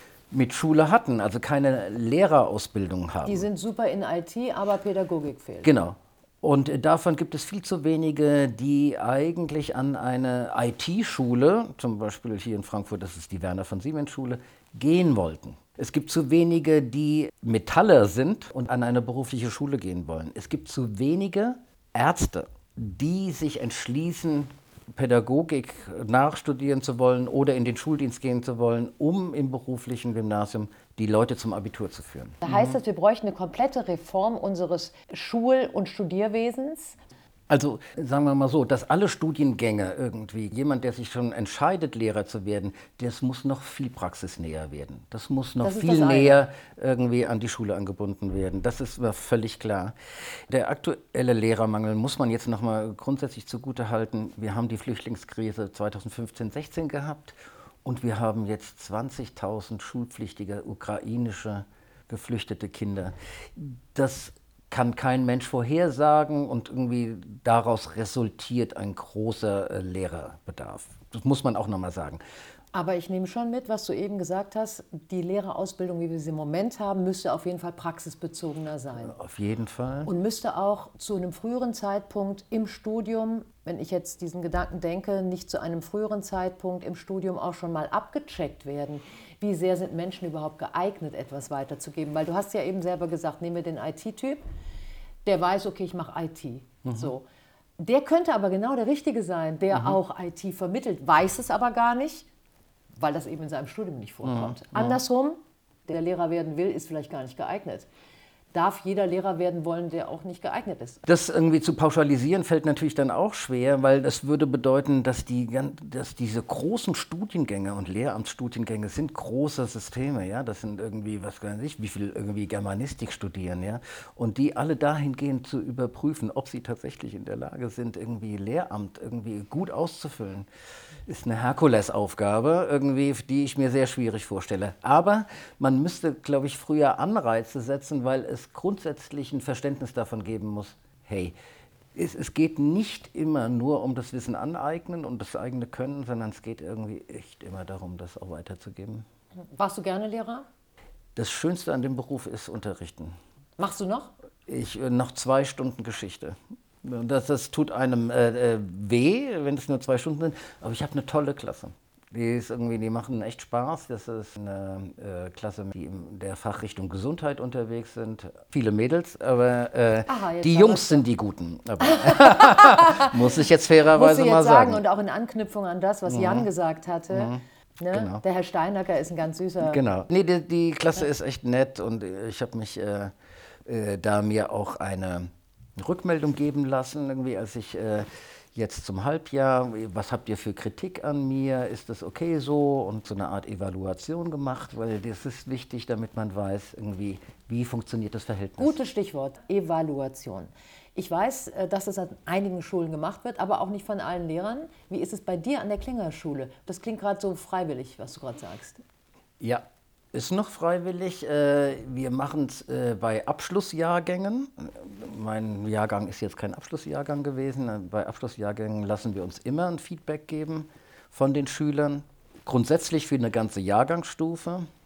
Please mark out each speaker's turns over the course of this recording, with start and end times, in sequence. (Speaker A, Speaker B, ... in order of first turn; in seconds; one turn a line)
Speaker A: 0.3-3.5
Speaker B: 3.2-5.7
Speaker A: 5.6-32.7
Speaker B: 32.4-37.0
Speaker A: 37.5-50.0
Speaker B: 45.6-46.4
Speaker A: 50.5-72.2
Speaker B: 72.7-79.1
Speaker A: 79.0-80.1
Speaker B: 80.0-94.4
Speaker B: 95.2-97.2
Speaker A: 96.8-97.1
Speaker B: 97.8-102.3
Speaker B: 102.9-107.9
Speaker A: 104.2-105.0
Speaker B: 108.5-111.0
Speaker A: 111.0-130.5
Speaker A: 131.1-141.3
Speaker A: 141.9-149.0
Speaker B: 149.5-150.5
Speaker A: 151.2-153.2
Speaker B: 153.6-154.1
Speaker A: 154.5-174.8
Speaker B: 170.1-171.0
Speaker B: 171.8-173.2
Speaker B: 173.9-179.8
Speaker A: 176.1-176.5
Speaker A: 177.1-178.2
Speaker A: 179.6-183.1
Speaker A: 183.7-198.8
Speaker B: 198.6-208.8
Speaker A: 209.4-224.7